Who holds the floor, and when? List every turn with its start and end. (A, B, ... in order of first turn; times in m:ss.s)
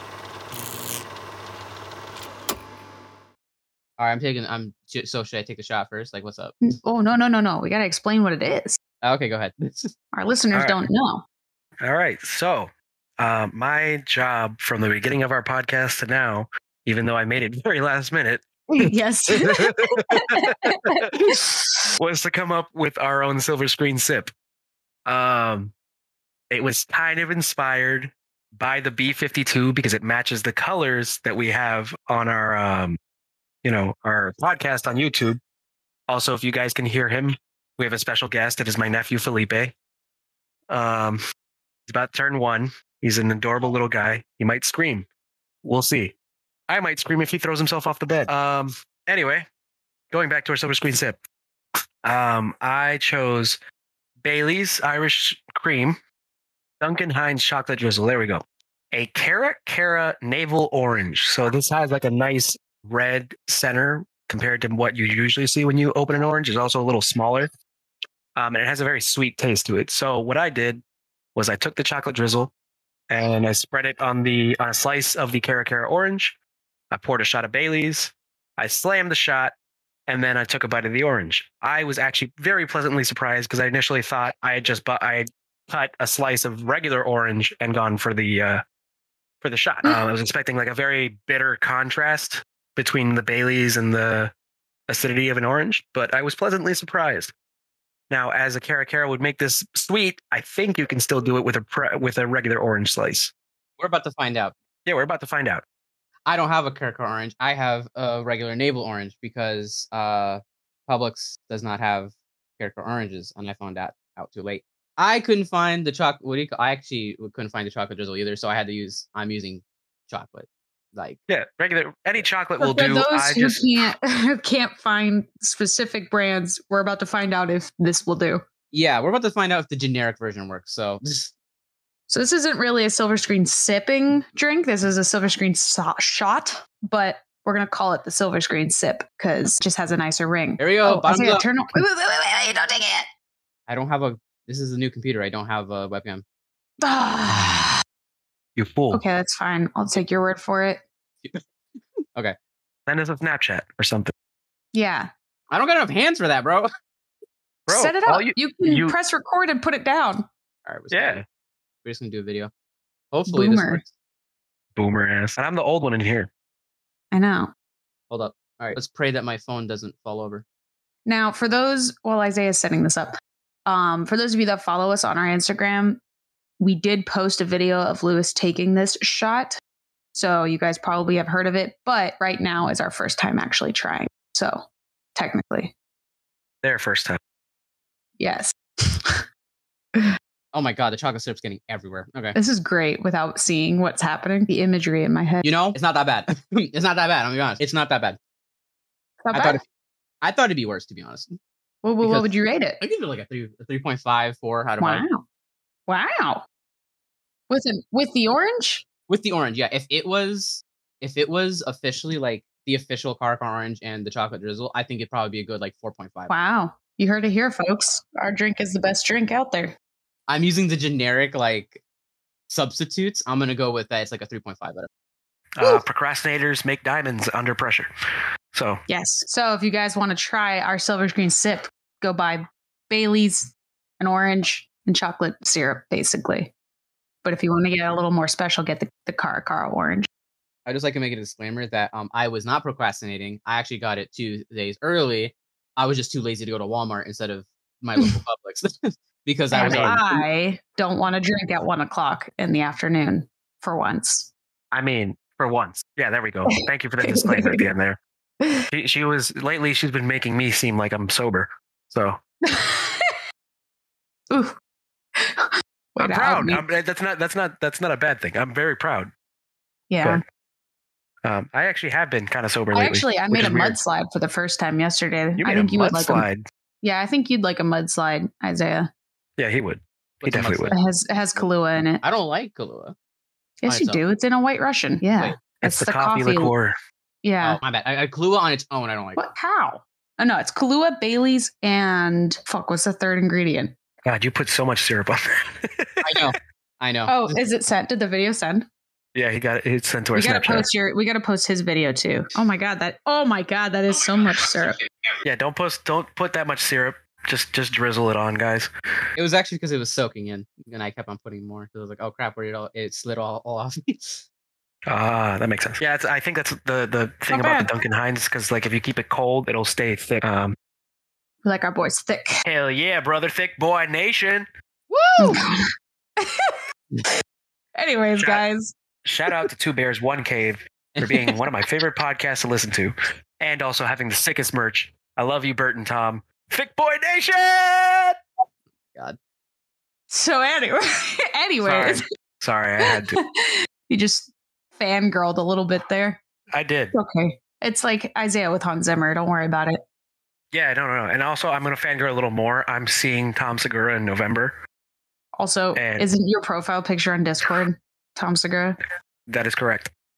0:04.0-0:06.6 A
0:06.7-0:08.8 B
0:09.0-0:09.9 A
0:10.1-0:11.2 B
0:10.5-0:10.8 C
0:11.8-0:21.0 C
0:18.8-0:21.9 B
0:22.0-0:24.3 C
0:25.0-0:25.7 C
0:26.5-0:33.0 C
0:33.6-0:35.4 C
0:36.1-0:39.7 C
0:40.7-0:41.2 C
0:41.9-0:45.1 C
0:45.6-0:46.1 C
0:46.7-0:49.5 C
0:50.1-0:51.2 C
0:52.0-0:53.6 C
0:54.2-0:56.0 C
0:56.8-1:07.5 C
1:08.4-1:10.8 C
1:11.3-1:12.5 C
1:13.1-1:16.4 C
1:16.9-1:19.5 C
1:20.1-1:28.6 C
1:29.4-1:34.3 C
1:34.9-1:37.3 C
1:38.1-1:43.3 C
1:43.8-1:44.5 A
1:44.8-1:45.6 C
1:46.2-2:01.2 A
2:01.3-2:03.7 C
2:02.6-2:08.4 B
2:08.7-2:11.3 A
2:12.1-2:23.1 B
2:20.6-2:21.4 A
2:23.7-2:26.2 A
2:26.8-2:27.8 B
2:28.6-2:29.0 C
2:28.9-2:30.8 B
2:32.9-2:34.1 C
2:34.7-2:35.1 B
2:35.5-2:36.7 A
2:37.7-2:38.9 C
2:37.7-2:40.3 B
2:40.6-2:41.2 A
2:40.9-2:41.2 C
2:41.8-2:42.5 A
2:43.1-2:43.9 A
2:43.3-2:43.8 B
2:44.8-2:46.3 C
2:47.1-2:47.5 B
2:48.1-2:50.4 A
2:51.0-2:53.1 B
2:53.6-2:56.0 B
2:56.6-2:59.6 B
3:00.1-3:04.6 B
3:05.1-3:05.7 B
3:06.6-3:07.2 C
3:08.2-3:09.2 B
3:10.5-3:12.4 A
3:12.4-3:15.4 B
3:15.4-3:18.2 A
3:19.2-3:19.6 B
3:19.3-3:19.6 A
3:20.2-3:21.3 A
3:21.8-3:22.8 B
3:22.0-3:25.0 A
3:24.8-3:25.2 B
3:25.9-3:26.4 B
3:27.5-3:28.8 B
3:29.1-3:36.3 A
3:36.3-3:39.7 B
3:40.3-3:41.8 A
3:42.5-3:44.9 A
3:45.6-3:47.9 C
3:48.5-3:48.8 C
3:48.9-3:56.5 B
3:57.2-4:00.1 B
4:00.6-4:10.2 A
4:09.5-4:14.3 B
4:09.6-4:10.0 C
4:14.7-4:18.0 C
4:17.0-4:17.6 B
4:18.4-4:18.6 B
4:18.7-4:22.2 C
4:22.4-4:23.2 B
4:24.3-4:24.5 B
4:25.2-4:26.6 B
4:26.0-4:29.1 C
4:29.9-4:30.2 B
4:31.2-4:33.8 C
4:32.7-4:36.2 B
4:35.4-4:36.4 C
4:36.8-4:38.9 B
4:39.4-4:40.7 C
4:40.2-4:40.8 A
4:40.7-4:42.0 B
4:42.0-4:42.9 A
4:43.6-4:46.5 B
4:43.7-4:44.0 A
4:45.1-4:45.4 A
4:45.6-4:46.7 C
4:47.2-4:47.6 B
4:47.4-4:49.2 A
4:49.2-4:53.7 B
4:54.0-4:56.2 C
4:56.0-4:57.3 A
4:57.1-4:58.7 B
4:59.1-5:00.6 C
5:00.1-5:04.8 B
5:05.2-5:08.7 C
5:09.2-5:14.2 A
5:14.9-5:20.6 C
5:17.3-5:17.7 B
5:21.4-5:22.3 B
5:22.4-5:24.5 C
5:24.9-5:25.4 A
5:25.2-5:25.6 B
5:26.2-5:27.1 B
5:27.8-5:28.7 B
5:28.2-5:28.4 C
5:29.0-5:38.2 C
5:40.1-5:42.0 B
5:41.6-5:43.2 C
5:42.9-5:46.2 B
5:46.5-5:46.9 C
5:46.9-5:49.8 B
5:50.5-5:54.5 C
5:55.4-5:58.8 B
5:55.7-5:56.1 C
5:59.3-5:59.9 C